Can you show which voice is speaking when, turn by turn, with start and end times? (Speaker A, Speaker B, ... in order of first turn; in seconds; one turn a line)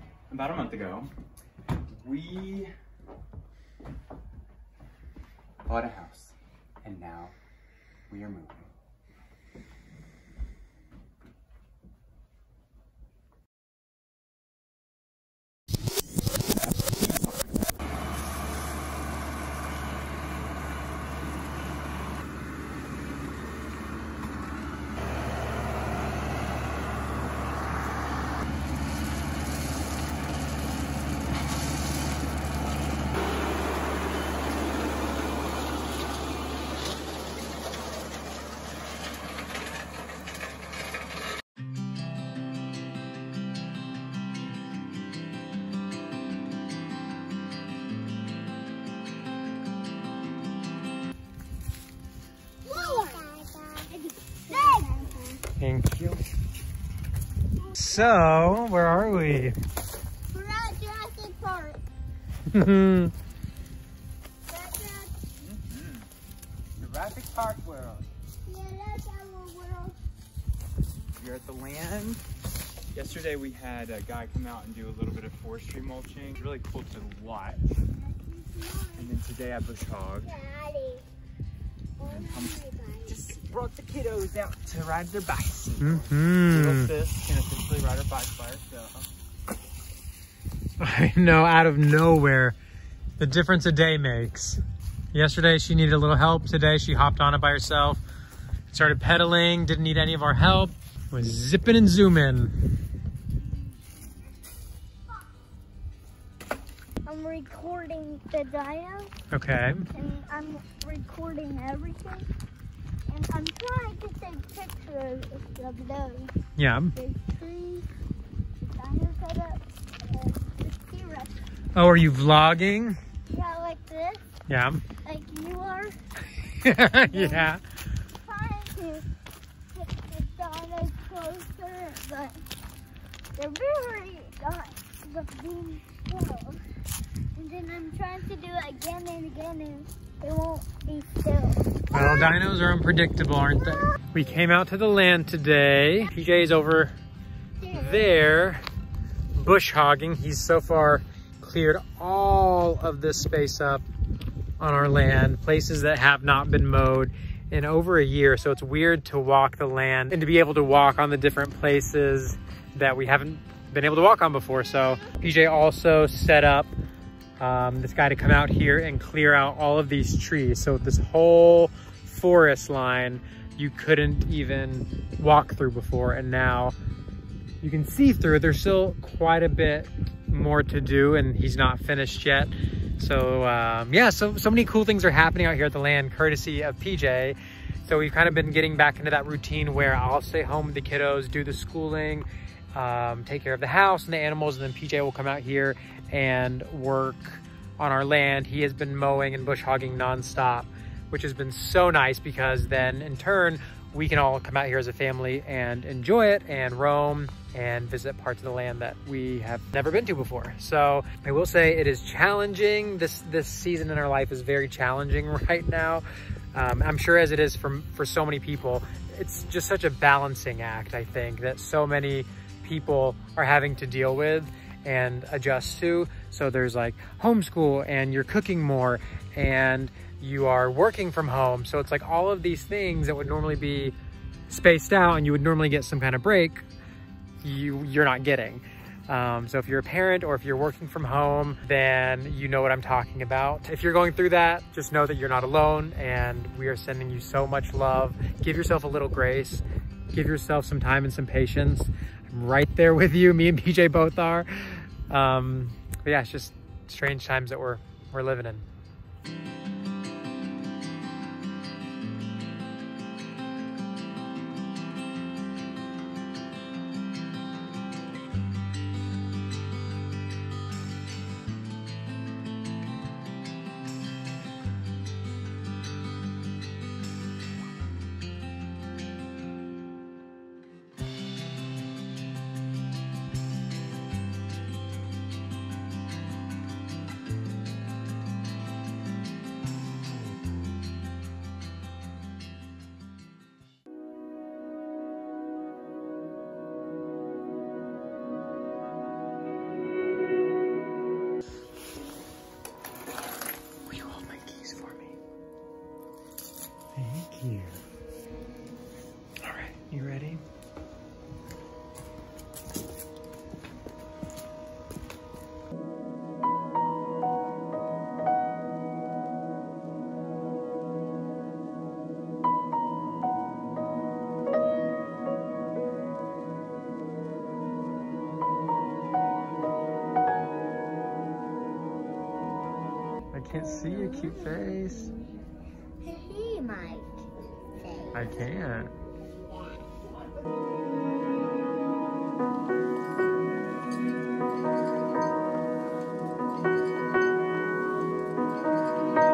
Speaker A: 0.3-1.1
Speaker A: 1.9-2.7
Speaker A: 5.6-7.3
Speaker A: 8.1-8.7
Speaker B: 52.6-55.4
Speaker C: 55.6-56.3
Speaker C: 57.7-59.5
Speaker B: 60.3-61.8
Speaker C: 62.5-63.1
Speaker B: 64.5-65.2
Speaker A: 65.4-66.1
Speaker A: 66.8-68.1
Speaker B: 68.5-70.0
Speaker A: 71.2-72.2
Speaker A: 72.9-77.7
Speaker B: 78.0-79.1
Speaker A: 78.9-80.3
Speaker B: 80.2-81.0
Speaker B: 82.0-83.3
Speaker A: 82.0-89.1
Speaker C: 85.8-86.9
Speaker C: 90.8-92.6
Speaker C: 93.2-94.6
Speaker C: 95.1-98.0
Speaker C: 98.7-102.7
Speaker B: 107.0-109.2
Speaker C: 109.3-109.9
Speaker B: 109.9-112.3
Speaker B: 113.1-116.3
Speaker C: 116.6-116.9
Speaker B: 117.0-117.9
Speaker B: 118.6-121.4
Speaker C: 121.7-123.0
Speaker B: 123.3-124.2
Speaker C: 124.5-124.8
Speaker B: 125.0-126.0
Speaker C: 126.5-127.6
Speaker B: 127.0-127.5
Speaker B: 128.2-129.1
Speaker B: 129.7-132.4
Speaker B: 133.3-136.6
Speaker B: 137.3-142.2
Speaker C: 141.9-146.9
Speaker B: 147.6-148.0
Speaker C: 147.7-148.6
Speaker C: 149.3-153.8
Speaker C: 154.6-166.7
Speaker C: 167.4-176.7
Speaker C: 177.6-233.9
Speaker C: 234.5-236.6
Speaker C: 237.4-258.7
Speaker C: 303.9-305.1
Speaker C: 306.9-307.8
Speaker C: 309.4-310.4
Speaker C: 333.3-335.1
Speaker B: 333.9-334.8
Speaker B: 336.0-338.4
Speaker C: 338.1-338.9